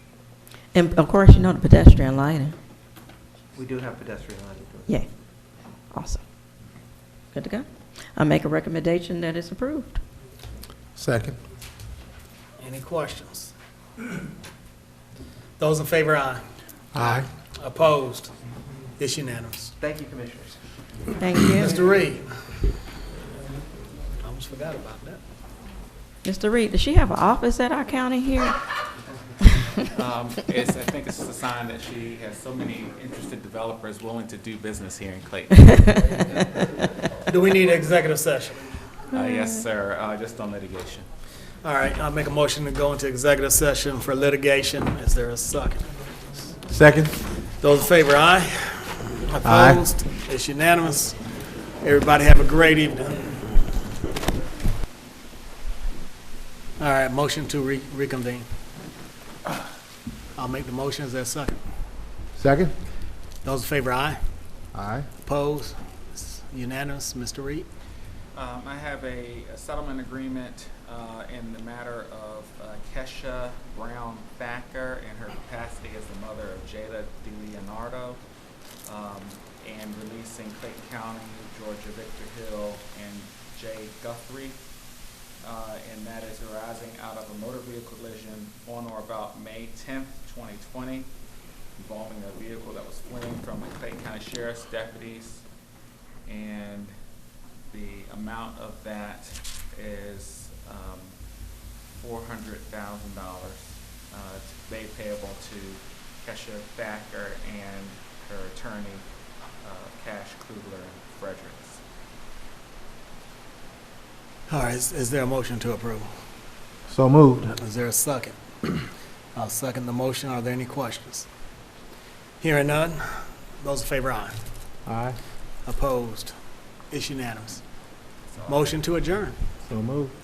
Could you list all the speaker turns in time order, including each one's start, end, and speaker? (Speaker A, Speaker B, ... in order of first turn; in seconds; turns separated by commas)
Speaker A: 0.7-2.6, Speaker B: 3.5-5.0, Speaker A: 4.9-5.3, Speaker A: 5.9-6.2, Speaker A: 7.3-10.0, Speaker C: 11.0-11.4, Speaker D: 12.6-13.5, Speaker D: 15.6-16.4, Speaker C: 16.9-17.3, Speaker D: 17.0-18.3, Speaker D: 19.0-19.7, Speaker B: 19.8-20.8, Speaker A: 21.2-21.8, Speaker D: 21.5-22.7, Speaker D: 24.2-25.2, Speaker A: 26.2-28.6, Speaker E: 29.9-36.1, Speaker D: 37.3-38.9, Speaker E: 39.1-41.1, Speaker A: 39.1-39.6, Speaker D: 41.6-46.5, Speaker C: 46.7-47.2, Speaker D: 47.6-51.2, Speaker C: 49.4-49.8, Speaker D: 51.8-53.6, Speaker D: 56.8-58.5, Speaker D: 60.4-61.6, Speaker C: 62.4-62.8, Speaker D: 63.4-64.2, Speaker C: 64.7-65.1, Speaker D: 65.2-67.7, Speaker E: 68.3-78.2, Speaker E: 78.8-84.6, Speaker E: 85.4-91.1, Speaker E: 91.8-95.5, Speaker E: 96.3-96.9, Speaker E: 97.7-101.2, Speaker E: 101.9-109.1, Speaker E: 109.6-111.8, Speaker D: 114.5-116.1, Speaker C: 116.9-117.5, Speaker D: 117.5-121.3, Speaker D: 122.4-124.4, Speaker C: 124.9-125.2, Speaker D: 125.7-126.3, Speaker D: 126.9-127.6, Speaker E: 128.3-128.8, Speaker D: 128.5-129.4, Speaker C: 129.7-130.1